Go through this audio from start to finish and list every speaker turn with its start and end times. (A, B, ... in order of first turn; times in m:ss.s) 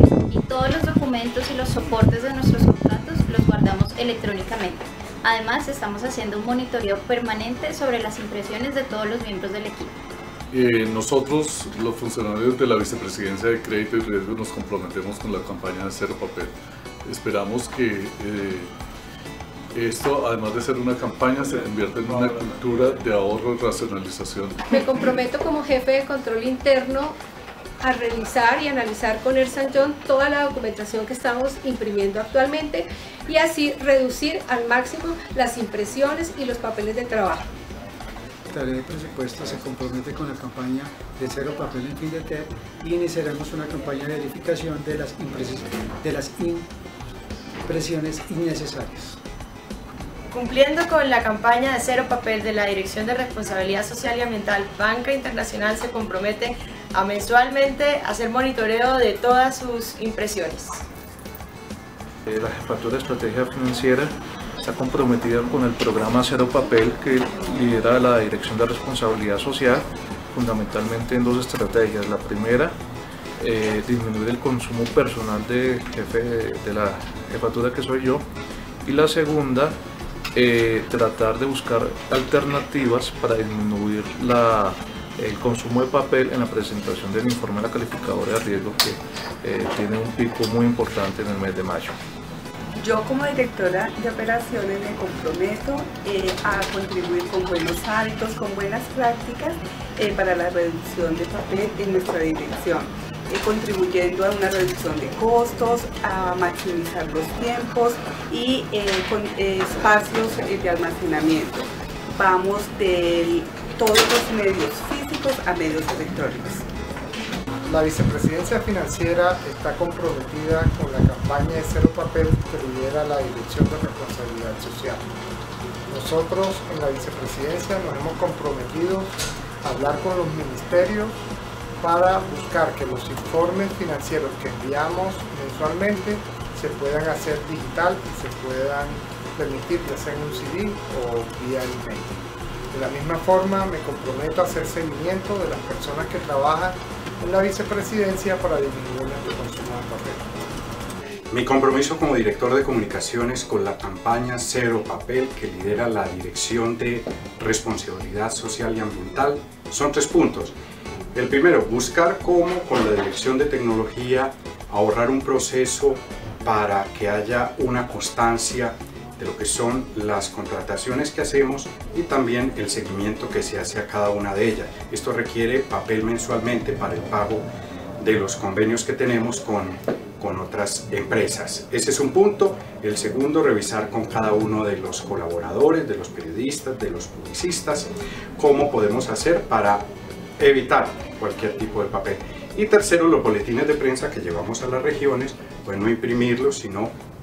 0:00.3-0:10.0 A
0:10.5-0:16.5 B
0:17.0-0:18.7 B
0:19.7-0:24.7 B
0:24.7-0:27.2 C
0:27.8-0:37.5 C
0:38.5-0:46.6 D
0:47.7-0:49.2 D
0:50.3-1:00.8 E
1:02.3-1:12.8 F
1:13.4-1:18.2 F
1:18.8-1:19.8 F
1:20.3-1:31.9 F
1:32.8-1:56.6 G
1:57.6-2:05.0 H
2:05.9-2:11.2 H
2:11.8-2:30.3 H
2:31.3-2:40.5 I
2:41.1-2:57.5 I
2:58.0-3:09.9 I
3:10.4-3:16.9 I